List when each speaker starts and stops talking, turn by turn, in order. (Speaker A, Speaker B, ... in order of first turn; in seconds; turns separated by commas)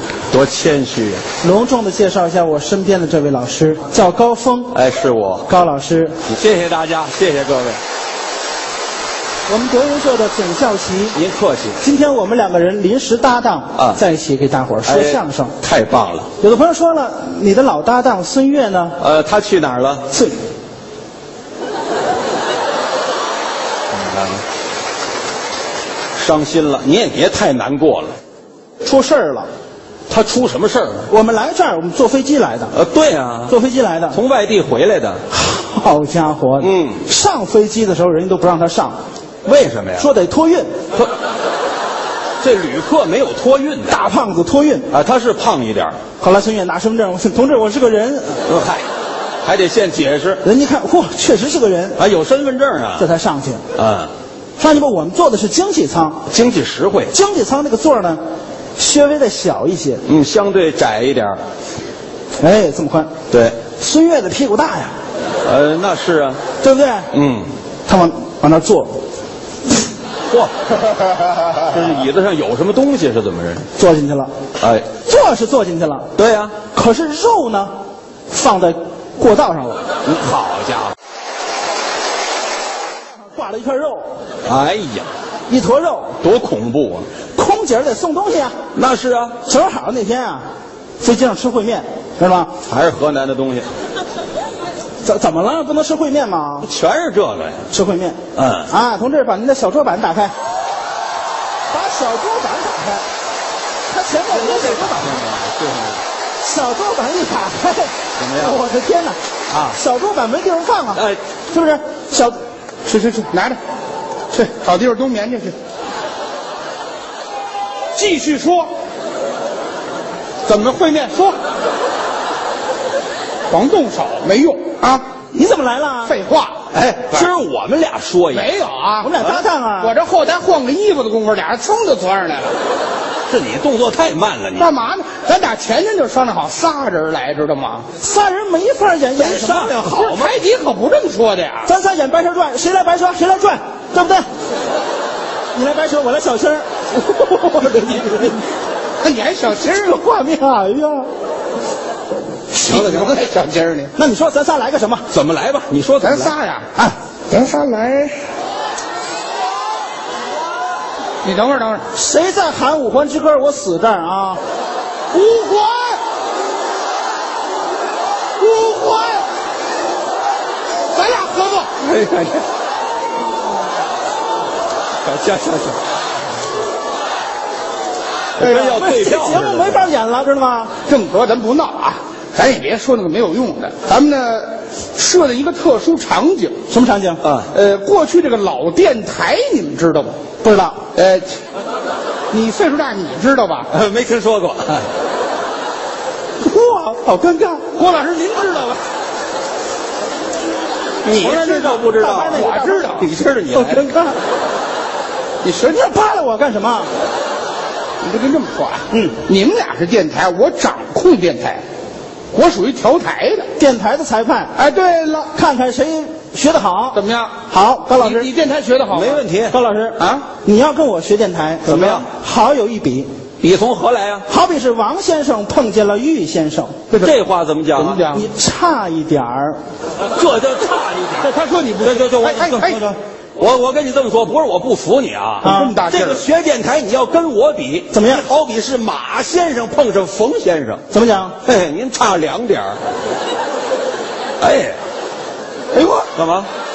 Speaker A: 0.3-1.2, Speaker B: 1.4-4.7, Speaker A: 4.7-5.5, Speaker B: 5.5-6.2, Speaker A: 6.3-7.8, Speaker B: 9.5-11.2, Speaker A: 11.1-11.8, Speaker B: 11.8-15.5, Speaker A: 14.8-16.3, Speaker B: 16.4-19.0, Speaker A: 19.0-20.1, Speaker B: 20.1-20.4, Speaker A: 23.9-24.4, Speaker A: 26.1-28.1, Speaker B: 28.8-29.5, Speaker A: 30.1-31.1, Speaker B: 31.1-32.7, Speaker A: 32.7-33.5, Speaker B: 33.5-34.2, Speaker A: 34.1-35.2, Speaker B: 35.3-39.0, Speaker A: 36.6-37.0, Speaker A: 39.4-40.1, Speaker B: 40.0-40.7, Speaker A: 42.4-44.0, Speaker B: 43.9-44.9, Speaker A: 44.9-46.0, Speaker B: 46.2-48.4, Speaker A: 48.5-48.9, Speaker A: 49.4-50.4, Speaker B: 50.4-52.0, Speaker A: 52.0-53.1, Speaker B: 53.0-53.6, Speaker A: 53.7-54.1, Speaker B: 54.6-56.2, Speaker A: 56.3-57.1, Speaker B: 57.1-58.2, Speaker B: 58.8-60.0, Speaker A: 60.0-61.4, Speaker B: 62.4-63.1, Speaker A: 63.3-63.6, Speaker B: 63.8-64.9, Speaker A: 65.4-66.4, Speaker B: 66.6-67.1, Speaker A: 67.1-67.5, Speaker B: 67.9-68.9, Speaker A: 70.3-73.7, Speaker B: 73.8-74.3, Speaker A: 74.6-74.9, Speaker B: 75.0-76.1, Speaker A: 76.2-76.6, Speaker B: 76.7-77.7, Speaker B: 78.3-79.8, Speaker A: 80.0-80.9, Speaker B: 83.2-84.1, Speaker A: 84.5-85.1, Speaker B: 85.5-86.2, Speaker A: 86.2-87.1, Speaker B: 87.3-88.5, Speaker A: 88.7-89.4, Speaker B: 89.4-90.5, Speaker B: 91.0-92.5, Speaker A: 92.7-93.7, Speaker B: 95.0-96.7, Speaker A: 96.6-97.7, Speaker B: 97.7-100.3, Speaker A: 98.3-98.7, Speaker B: 101.7-103.0, Speaker B: 103.9-105.2, Speaker A: 104.3-106.0, Speaker B: 106.4-112.4, Speaker A: 108.2-108.6, Speaker A: 109.5-109.8, Speaker A: 110.9-111.2, Speaker C: 112.8-113.6, Speaker C: 114.3-115.5, Speaker C: 117.9-118.7, Speaker C: 120.5-121.4, Speaker C: 123.5-125.0, Speaker B: 125.3-126.1, Speaker C: 126.0-127.2, Speaker A: 126.7-128.5, Speaker C: 128.3-129.2, Speaker B: 129.0-129.9, Speaker A: 129.2-129.4, Speaker C: 129.8-132.5, Speaker A: 133.3-134.7, Speaker C: 134.6-137.9, Speaker B: 138.0-139.8, Speaker A: 139.2-140.4, Speaker C: 139.9-141.7, Speaker B: 141.6-144.3, Speaker B: 145.5-148.4, Speaker C: 149.0-149.8, Speaker B: 149.6-151.1, Speaker C: 152.5-153.9, Speaker A: 152.7-153.2, Speaker B: 153.9-155.1, Speaker A: 155.1-156.3, Speaker C: 156.0-156.7, Speaker C: 157.3-158.2, Speaker C: 161.2-161.8, Speaker B: 161.9-164.4, Speaker C: 165.1-166.0, Speaker C: 168.4-169.3, Speaker C: 170.9-171.8, Speaker A: 171.8-172.4, Speaker A: 175.0-175.8, Speaker A: 178.4-179.9, Speaker B: 178.4-180.7, Speaker C: 180.8-186.6, Speaker B: 186.7-187.2, Speaker A: 187.2-187.5, Speaker C: 187.5-190.2, Speaker B: 190.4-190.8, Speaker C: 190.9-191.3, Speaker C: 192.3-193.7, Speaker A: 193.7-194.9, Speaker B: 196.4-197.7, Speaker C: 197.7-198.8, Speaker A: 201.0-203.8, Speaker C: 201.2-203.1, Speaker B: 201.9-204.2, Speaker C: 205.4-205.8, Speaker B: 205.6-206.9, Speaker C: 208.0-211.6, Speaker B: 208.9-209.2, Speaker C: 212.3-213.5, Speaker B: 213.6-214.5, Speaker C: 214.6-215.3, Speaker B: 215.3-218.3, Speaker C: 216.9-217.3, Speaker C: 217.9-219.2, Speaker A: 218.9-219.5, Speaker B: 219.5-223.1, Speaker C: 220.0-220.3, Speaker A: 221.6-222.1, Speaker A: 223.4-224.3, Speaker B: 224.3-226.8, Speaker A: 227.0-228.0, Speaker C: 227.7-228.3, Speaker B: 228.1-229.6, Speaker A: 230.1-232.8, Speaker C: 231.2-232.8, Speaker B: 232.6-232.9, Speaker A: 233.4-240.8, Speaker B: 235.4-235.8, Speaker C: 235.5-236.2, Speaker B: 237.9-238.3, Speaker B: 240.9-241.3, Speaker A: 241.4-242.8, Speaker A: 244.4-244.8, Speaker A: 246.1-246.5